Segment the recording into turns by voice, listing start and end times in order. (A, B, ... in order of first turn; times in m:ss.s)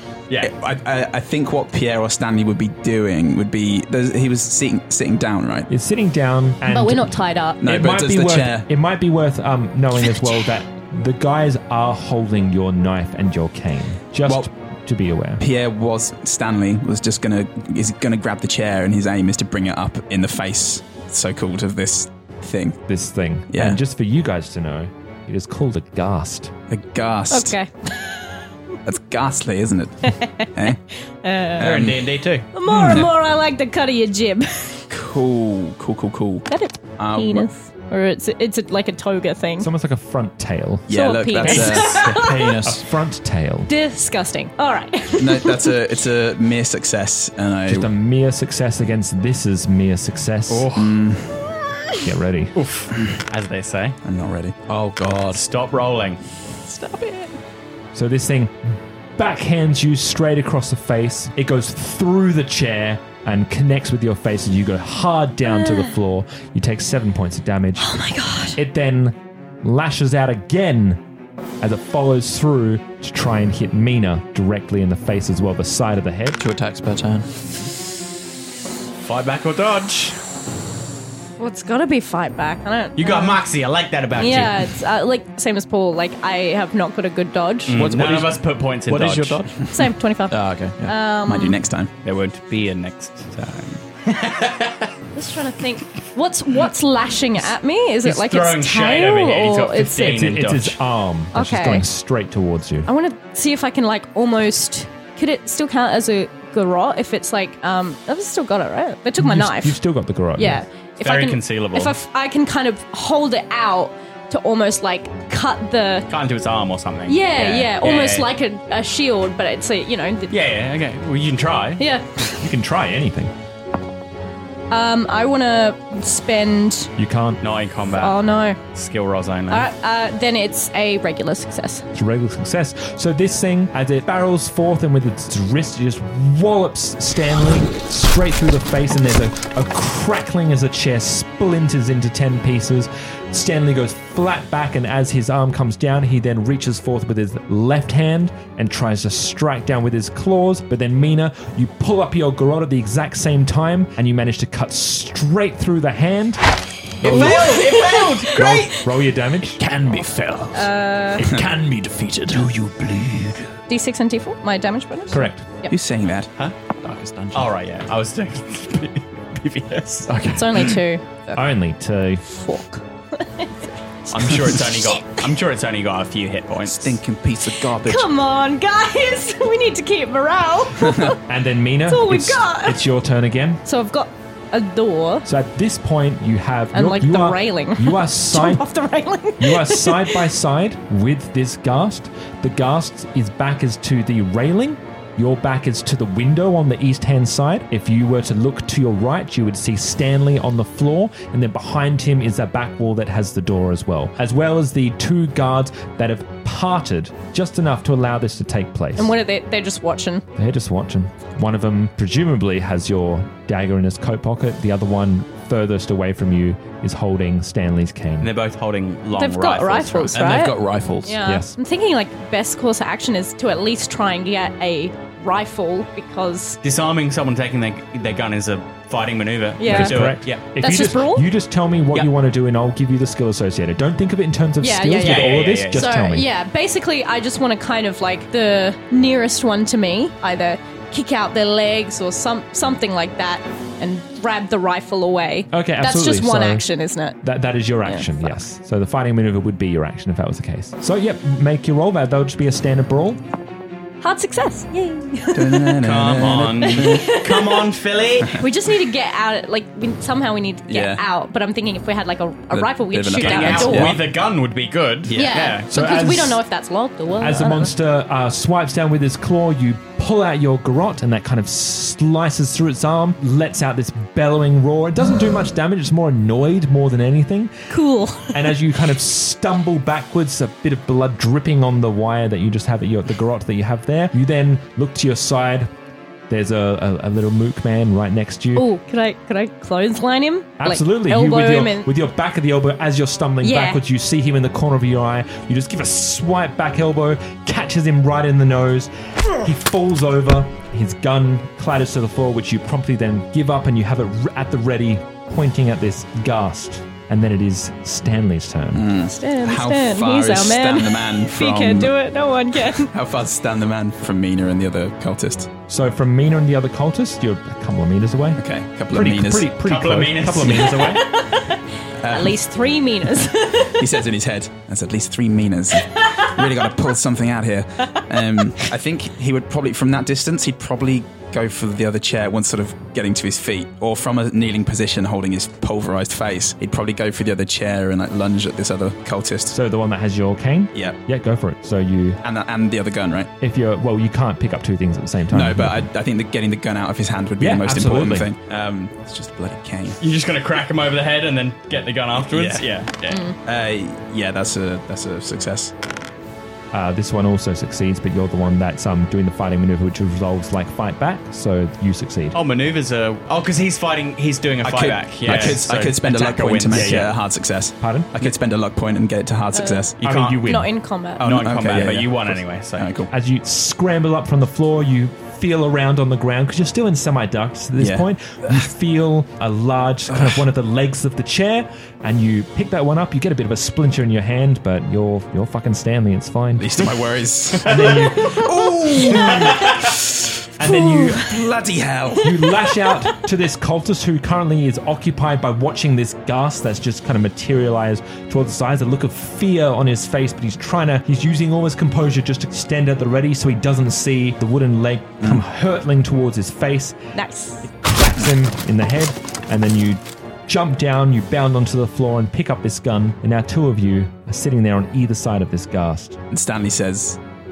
0:00.4-0:05.7 A
0:05.7-0:15.4 B
0:06.6-0:07.6 C
0:07.6-0:08.7 A
0:15.4-0:22.8 A
0:22.9-0:26.5 B
0:23.5-0:23.8 A
0:26.7-0:27.5 A
0:27.3-0:28.5 C
0:28.8-0:30.8 A
0:30.0-0:31.7 C
0:31.6-0:33.1 A
0:31.6-0:33.0 D
0:32.5-0:34.9 C
0:34.9-0:37.5 A
0:36.5-0:39.7 C
0:39.6-0:40.9 B
0:40.9-0:42.1 A
0:40.9-0:42.5 C
0:41.4-0:42.8 E
0:41.5-0:42.2 D
0:42.6-0:43.7 B
0:43.7-0:45.8 C
0:45.2-0:47.9 A
0:47.7-0:50.7 B
0:50.6-0:51.3 A
0:52.0-0:52.5 B
0:52.5-0:54.0 D
0:54.0-0:54.6 A
0:54.7-0:55.4 E
0:55.3-0:56.2 D
0:56.7-0:57.3 C
0:57.9-1:07.9 B
1:05.6-1:05.9 C
1:07.8-1:08.6 C
1:08.5-1:11.0 B
1:11.6-1:16.4 B
1:16.4-1:17.3 E
1:19.0-1:20.2 D
1:21.4-1:23.4 C
1:23.0-1:24.7 D
1:24.2-1:27.8 C
1:27.7-1:29.4 D
1:27.7-1:29.6 E
1:29.7-1:31.6 C
1:30.3-1:30.9 E
1:31.2-1:31.9 A
1:32.0-1:34.9 D
1:35.1-1:40.1 C
1:38.0-1:40.8 D
1:40.0-1:42.9 B
1:41.3-1:41.8 C
1:42.8-1:49.8 C
1:49.2-1:50.6 B
1:50.4-1:56.1 C
1:51.0-1:51.9 D
1:56.1-1:58.3 D
1:57.1-2:00.3 C
2:00.3-2:01.8 D
2:01.8-2:02.4 C
2:02.4-2:03.3 B
2:04.7-2:06.9 C
2:07.0-2:07.4 B
2:07.4-2:09.7 D
2:07.9-2:08.6 C
2:09.5-2:11.8 C
2:11.9-2:36.4 B
2:37.0-2:37.5 B
2:37.0-2:38.8 D
2:37.0-2:38.2 E
2:37.4-2:38.1 C
2:38.3-2:39.6 B
2:39.6-2:43.5 E
2:40.5-2:41.3 C
2:43.7-2:45.7 C
2:45.1-2:45.5 B
2:45.7-2:46.3 A
2:46.8-2:47.5 E
2:47.3-2:50.1 D
2:50.1-2:50.7 E
2:50.3-2:51.5 C
2:51.3-2:52.2 B
2:52.2-2:53.8 C
2:54.1-2:57.0 D
2:54.7-2:55.2 C
2:56.7-2:58.0 A
2:57.6-3:01.2 C
3:01.2-3:03.6 B
3:01.8-3:02.8 C
3:03.6-3:05.2 C
3:05.2-3:08.6 B
3:06.7-3:10.2 C
3:09.4-3:29.1 B
3:29.0-3:30.2 C
3:30.4-3:38.3 B
3:38.2-3:40.2 D
3:39.1-3:46.6 C
3:40.1-3:41.2 E
3:41.2-3:41.5 B
3:46.6-3:50.4 D
3:49.6-3:51.2 C
3:49.6-3:56.3 B
3:54.6-4:07.2 C
3:55.0-3:55.9 D
4:05.5-4:06.7 B
4:07.2-4:13.2 B
4:07.8-4:08.1 C
4:14.0-4:15.8 C
4:15.3-4:17.1 A
4:15.8-4:18.4 D
4:16.6-4:17.6 C
4:18.3-4:24.0 C
4:20.7-4:21.0 A
4:22.5-4:24.1 A
4:23.2-4:25.6 D
4:25.1-4:25.4 A
4:25.1-4:27.7 C
4:25.7-4:26.4 B
4:27.2-4:37.6 B
4:37.7-4:38.6 C
4:38.3-4:45.7 B
4:46.3-4:48.6 B
4:48.5-4:51.9 C
4:50.6-5:08.8 B
4:53.4-4:53.8 C
5:08.7-5:12.0 A
5:09.1-5:12.9 C
5:12.7-5:15.5 A
5:15.7-5:21.0 B
5:18.4-5:19.5 A
5:19.6-5:21.0 D
5:20.8-5:23.8 C
5:22.0-5:22.4 A
5:23.6-5:39.6 A
5:25.9-5:26.3 C
5:39.5-5:42.2 B
5:42.2-5:43.3 A
5:43.4-5:45.9 B
5:45.3-5:50.0 A
5:47.4-5:48.3 B
5:50.0-5:53.2 D
5:52.2-5:52.7 A
5:53.1-5:53.4 C
5:53.4-5:55.7 A
5:56.7-6:02.4 B
6:02.3-6:07.0 D
6:04.6-6:10.0 A
6:05.3-6:05.6 B
6:06.7-6:08.3 B
6:09.5-6:09.9 C
6:10.0-6:10.5 D
6:10.0-6:10.7 B
6:10.4-6:11.2 C
6:11.2-6:13.1 A
6:11.2-6:12.9 D
6:13.1-6:26.9 B
6:17.8-6:18.6 A
6:20.1-6:20.4 A
6:26.6-6:30.0 A
6:27.6-6:28.4 B
6:28.9-6:29.3 C
6:30.6-6:31.3 B
6:30.9-6:31.3 C
6:31.2-6:32.3 A
6:32.2-6:47.0 B
6:32.4-6:33.1 C
6:47.1-6:47.7 C
6:47.6-6:56.2 B
6:56.3-6:57.2 A